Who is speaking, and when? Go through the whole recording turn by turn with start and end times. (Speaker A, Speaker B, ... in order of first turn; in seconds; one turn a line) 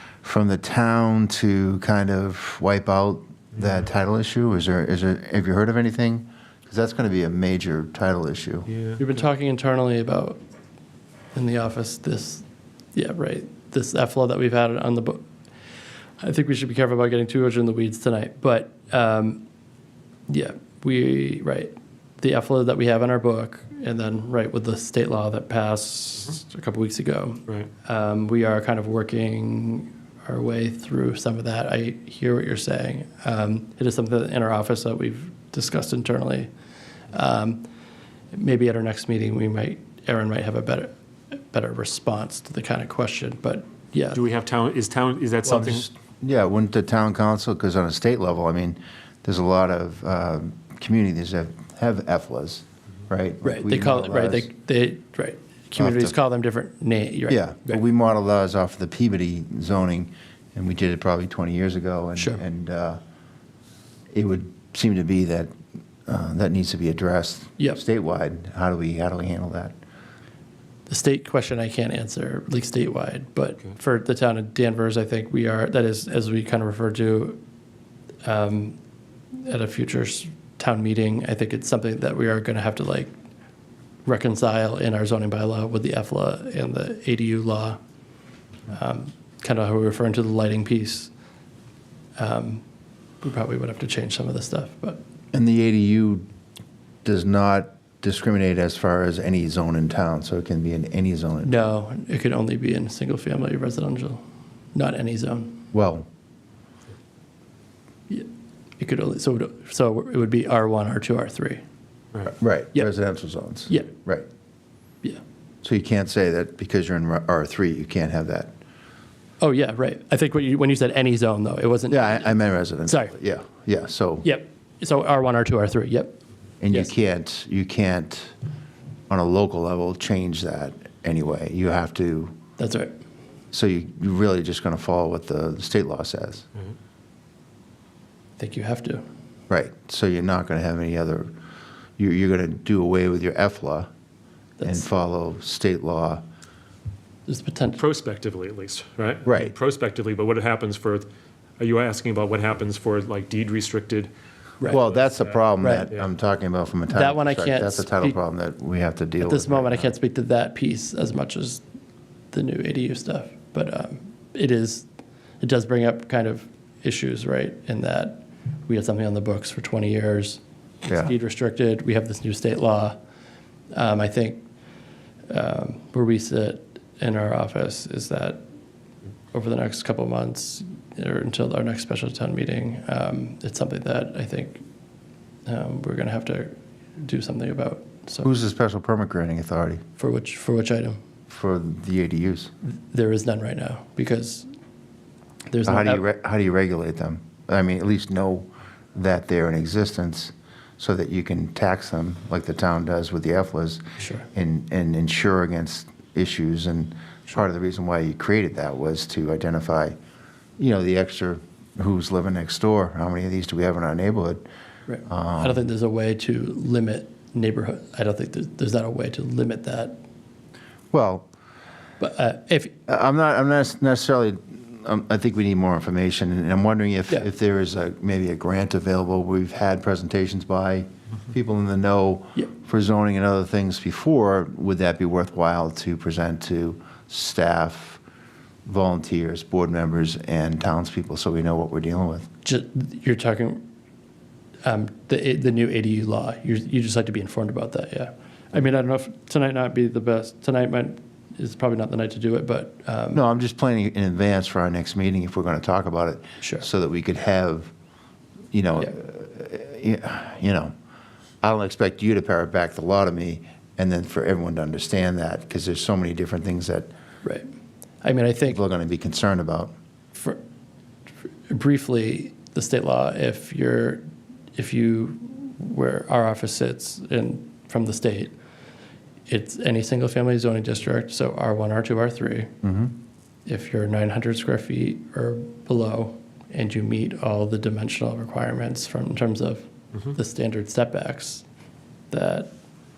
Speaker A: 0.2-8.7
Speaker B: 8.7-9.0
Speaker C: 9.0-10.4
Speaker C: 11.3-15.2
Speaker C: 16.2-19.4
Speaker C: 20.3-36.5
Speaker C: 37.1-37.6
Speaker C: 38.3-40.9
Speaker C: 41.5-44.2
Speaker B: 44.1-45.9
Speaker A: 45.5-54.5
Speaker C: 53.4-57.8
Speaker A: 55.8-56.1
Speaker A: 57.3-63.0
Speaker A: 64.1-65.5
Speaker A: 66.0-69.8
Speaker C: 70.9-77.4
Speaker C: 78.2-78.8
Speaker C: 79.4-83.1
Speaker C: 84.0-87.8
Speaker C: 88.7-91.1
Speaker C: 92.2-92.6
Speaker C: 93.2-95.0
Speaker A: 95.3-96.2
Speaker A: 97.0-101.5
Speaker C: 101.4-104.2
Speaker C: 104.7-105.7
Speaker A: 105.7-106.0
Speaker C: 108.8-111.6
Speaker A: 112.3-114.3
Speaker A: 115.6-118.5
Speaker C: 119.4-123.1
Speaker A: 121.9-124.2
Speaker C: 124.2-126.2
Speaker A: 126.6-128.3
Speaker A: 129.1-132.3
Speaker C: 132.6-132.9
Speaker A: 133.5-136.5
Speaker C: 138.4-139.0
Speaker A: 139.5-141.3
Speaker A: 142.0-143.9
Speaker C: 144.6-144.8
Speaker A: 144.6-146.2
Speaker C: 147.3-147.8
Speaker B: 147.8-151.1
Speaker A: 149.2-149.5
Speaker B: 151.6-154.1
Speaker A: 154.7-159.9
Speaker B: 154.7-155.2
Speaker C: 155.6-155.9
Speaker C: 156.9-158.2
Speaker C: 159.2-161.6
Speaker C: 162.3-164.9
Speaker C: 165.4-172.9
Speaker A: 170.9-171.1
Speaker C: 173.7-174.4
Speaker C: 175.3-178.4
Speaker C: 179.3-184.6
Speaker C: 185.4-188.3
Speaker A: 188.2-189.8
Speaker C: 190.0-191.0
Speaker A: 191.3-192.5
Speaker C: 192.6-194.5
Speaker C: 195.5-196.0
Speaker A: 195.6-209.9
Speaker C: 204.0-204.2
Speaker A: 210.6-214.4
Speaker C: 214.9-220.0
Speaker A: 215.1-215.6
Speaker A: 220.9-221.3
Speaker C: 222.0-222.7
Speaker A: 222.9-238.0
Speaker A: 238.6-242.3
Speaker C: 242.4-243.6
Speaker C: 244.6-253.2
Speaker A: 253.1-257.7
Speaker C: 256.4-256.6
Speaker A: 258.5-260.7
Speaker A: 261.4-266.9
Speaker C: 267.2-267.5
Speaker C: 268.0-268.6
Speaker A: 268.5-269.7
Speaker C: 270.1-270.4
Speaker C: 271.5-278.3
Speaker C: 279.3-282.6
Speaker A: 282.6-282.9
Speaker C: 283.4-291.4
Speaker C: 292.1-292.5